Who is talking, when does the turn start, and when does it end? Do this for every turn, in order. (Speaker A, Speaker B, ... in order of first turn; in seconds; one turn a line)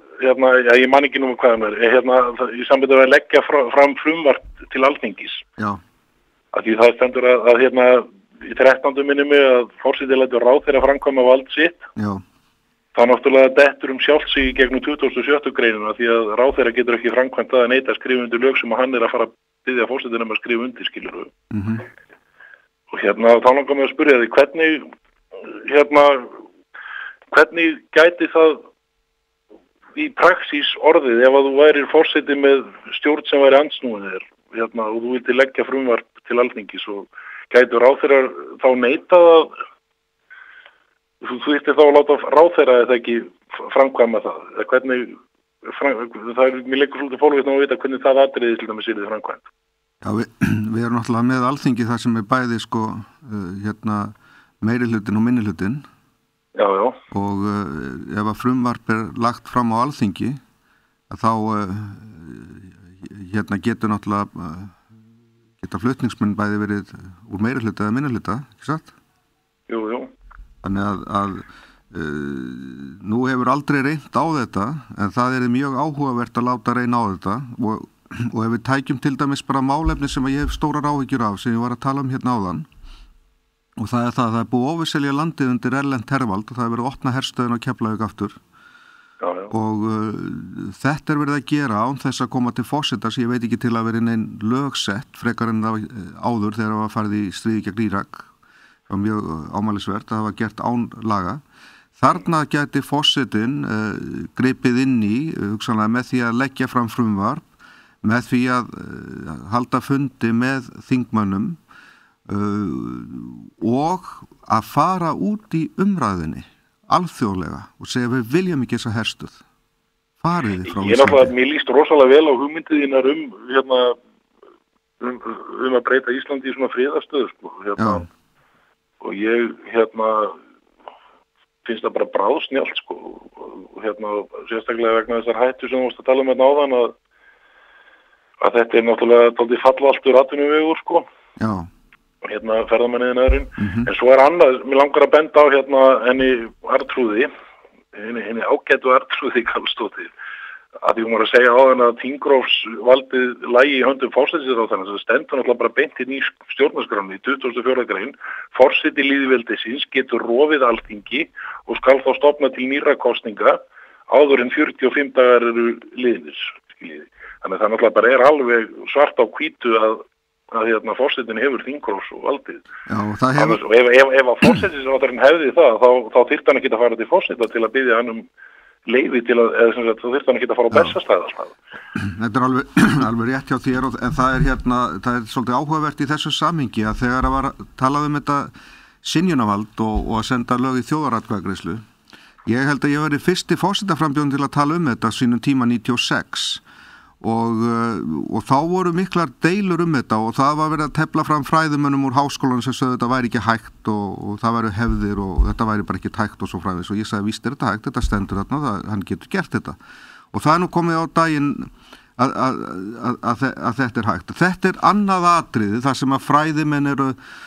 Speaker A: 0.2-5.4
Speaker A: 6.5-11.8
Speaker B: 12.0-12.2
Speaker A: 12.9-21.3
Speaker B: 21.5-21.8
Speaker A: 22.9-24.9
Speaker A: 25.7-26.3
Speaker A: 27.3-28.6
Speaker A: 29.9-39.5
Speaker A: 41.2-49.4
Speaker B: 50.0-55.9
Speaker A: 56.5-57.0
Speaker B: 57.1-60.4
Speaker B: 61.1-64.8
Speaker B: 65.6-68.9
Speaker A: 69.7-70.1
Speaker B: 70.6-82.7
Speaker B: 83.8-88.4
Speaker A: 89.2-89.5
Speaker B: 89.5-98.3
Speaker B: 98.9-101.4
Speaker B: 102.0-107.5
Speaker B: 108.0-111.6
Speaker B: 112.3-119.4
Speaker B: 120.2-121.3
Speaker A: 120.7-124.0
Speaker A: 125.0-128.1
Speaker B: 127.8-128.1
Speaker A: 129.0-130.4
Speaker A: 131.7-136.9
Speaker A: 138.4-141.1
Speaker B: 141.4-141.7
Speaker A: 142.2-147.3
Speaker B: 143.6-143.9
Speaker A: 147.9-150.1
Speaker A: 150.8-172.7
Speaker B: 172.9-173.6
Speaker A: 173.4-178.3
Speaker A: 178.9-181.5
Speaker B: 182.0-188.5
Speaker B: 189.0-191.8
Speaker B: 192.5-196.6
Speaker B: 197.2-209.8
Speaker B: 210.3-217.2